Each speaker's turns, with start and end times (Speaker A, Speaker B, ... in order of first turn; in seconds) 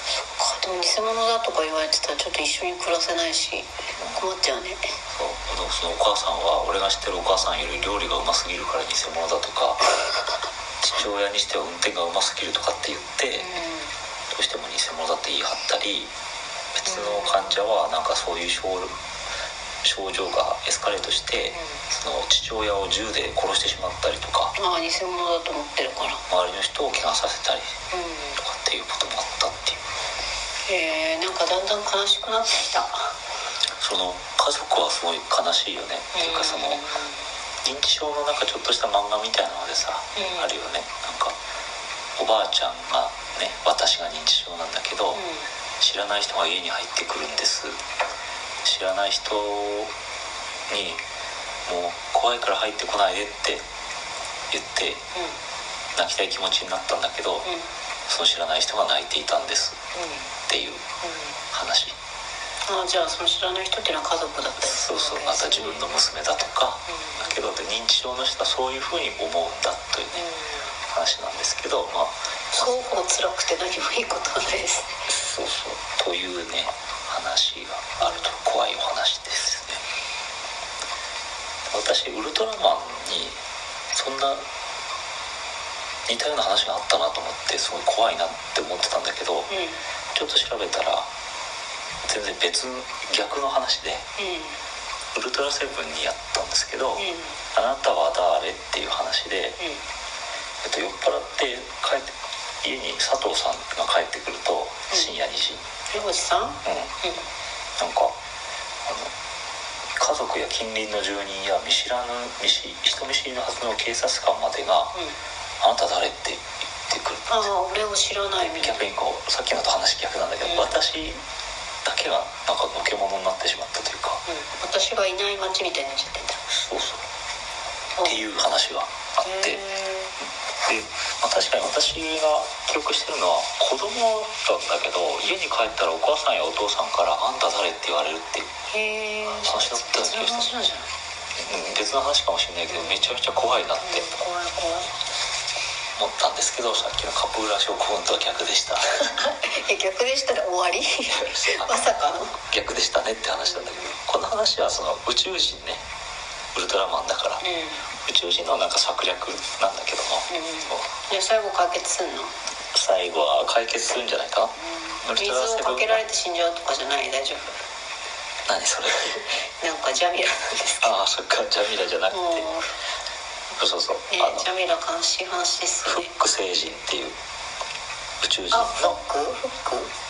Speaker A: 0.2-4.9, 13.4-13.9, 16.9-17.5, 24.6-26.2, 27.9-28.4, 30.6-33.1, 36.1-37.1, 40.1-40.5, 45.1-45.5, 60.0-60.2, 62.6-65.8, 70.2-70.6, 72.5-74.9, 89.5-89.8, 94.2-94.5, 97.0-97.3, 105.9-107.2, 117.3-118.8, 120.4-120.8, 124.3-126.4, 129.2-130.1, 138.7-140.9, 142.7-143.1, 143.8-144.9, 149.2-152.3, 157.4-157.8, 160.3-162.3, 165.0-167.5, 169.6-171.0, 172.1-172.7, 174.1-176.1, 178.5-179.9
Speaker B: 5.1-9.8, 10.8-13.5, 14.3-16.1, 16.8-18.9, 19.8-24.5, 26.3-27.7, 28.4-29.8, 33.8-36.9, 37.6-41.4, 42.2-45.2, 45.8-47.8, 48.6-49.9, 50.7-51.0, 51.6-53.6, 54.5-55.0, 56.0-57.5, 58.1-59.8, 60.5-60.8, 61.5-61.9, 64.6-70.2, 70.9-72.9, 75.1-79.8, 81.7-83.4, 83.9-84.4, 86.1-89.5, 90.1-91.1, 92.0-94.0, 95.1-99.6, 100.6-105.6, 106.7-106.9, 107.8-108.1, 108.8-109.1, 110.0-114.9, 115.6-117.5, 118.4-121.2, 121.8-124.2, 126.5-127.0, 128.0-129.6, 130.6-138.5, 139.4-140.5, 141.4-144.1, 145.9-149.1, 151.1-151.7, 152.5-155.8, 156.5-157.4, 158.1-160.8, 162.7-166.0, 168.4-169.2, 170.8-172.5, 173.6-174.4, 175.8-177.2, 178.2-179.0